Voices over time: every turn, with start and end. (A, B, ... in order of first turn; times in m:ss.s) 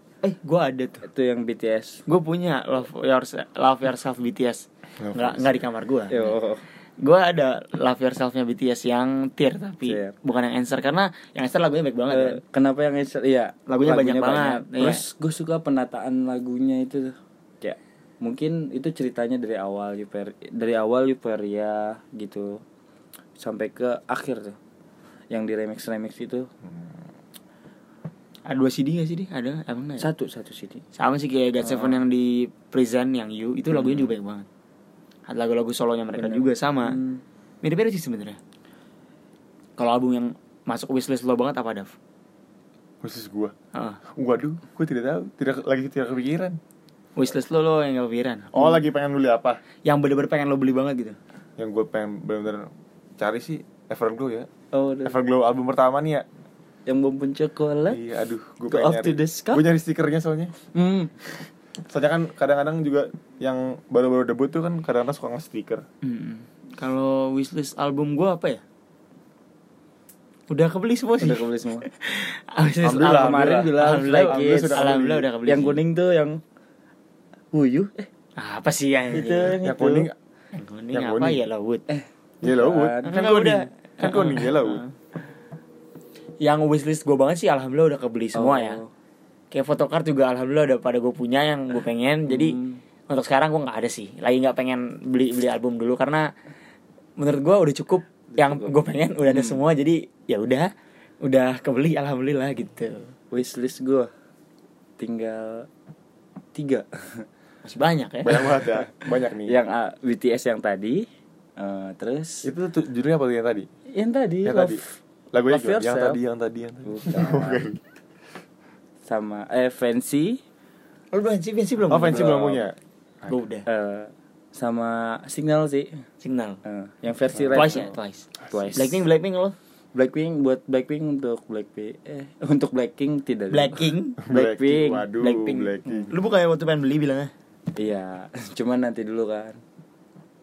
0:00.2-0:01.1 A
0:01.0-0:02.0 B
0:02.1-0:06.3 A
0:05.0-0:05.6 C
0:06.1-0:06.6 B
0:07.0-0:12.4 A
0:09.8-0:10.1 B
0:12.1-0:22.6 B
0:13.7-0:15.0 A
0:23.4-0:24.6 B
0:25.3-0:26.5 B
0:28.5-0:30.1 A
0:30.0-0:30.8 B
0:31.0-0:34.5 A
0:31.6-0:32.0 B
0:33.7-0:34.1 B
0:35.3-0:37.0 A
0:36.2-0:37.2 B
0:37.6-0:38.4 A
0:39.8-0:41.9 A
0:43.0-0:43.5 C
0:43.7-0:44.0 A
0:44.2-0:46.6 C
0:47.2-0:48.7 A
0:48.5-0:49.6 C
0:49.8-0:51.2 A
0:51.6-0:54.5 C
0:54.7-0:55.2 B
0:55.0-0:56.2 C
0:56.9-0:58.0 B
0:57.9-1:00.5 C
0:58.7-0:59.6 B
1:00.7-1:01.4 B
1:01.9-1:05.8 C
1:06.0-1:08.6 A
1:10.5-1:15.8 A
1:11.2-1:11.9 B
1:12.8-1:15.2 C
1:13.0-1:16.4 B
1:17.5-1:18.1 B
1:18.4-1:19.6 A
1:19.1-1:20.1 B
1:19.6-1:20.2 C
1:20.6-1:21.8 A
1:20.9-1:21.4 C
1:21.9-1:23.2 B
1:22.4-1:24.8 C
1:23.0-1:24.9 A
1:26.4-1:28.8 A
1:28.3-1:28.9 B
1:29.5-1:36.3 A
1:32.3-1:32.8 B
1:37.2-1:40.7 A
1:38.3-1:39.6 B
1:41.2-1:43.1 A
1:43.3-1:44.1 B
1:45.0-1:45.7 B
1:46.6-1:47.3 B
1:47.6-1:48.4 A
1:48.2-1:49.6 C
1:48.7-1:51.0 B
1:51.6-1:52.5 B
1:52.4-1:53.7 C
1:53.9-1:55.0 B
1:54.4-1:54.8 C
1:55.3-1:57.8 C
1:55.5-1:56.2 B
1:56.9-1:57.7 B
1:59.1-2:00.4 B
2:01.1-2:02.4 A
2:01.9-2:02.8 C
2:02.1-2:02.6 B
2:03.3-2:03.7 A
2:03.7-2:05.9 B
2:06.2-2:06.6 A
2:06.6-2:07.9 B
2:07.5-2:09.6 A
2:08.5-2:09.0 B
2:10.0-2:15.1 B
2:13.5-2:14.3 A
2:14.2-2:16.1 C
2:15.1-2:17.3 A
2:17.8-2:19.6 B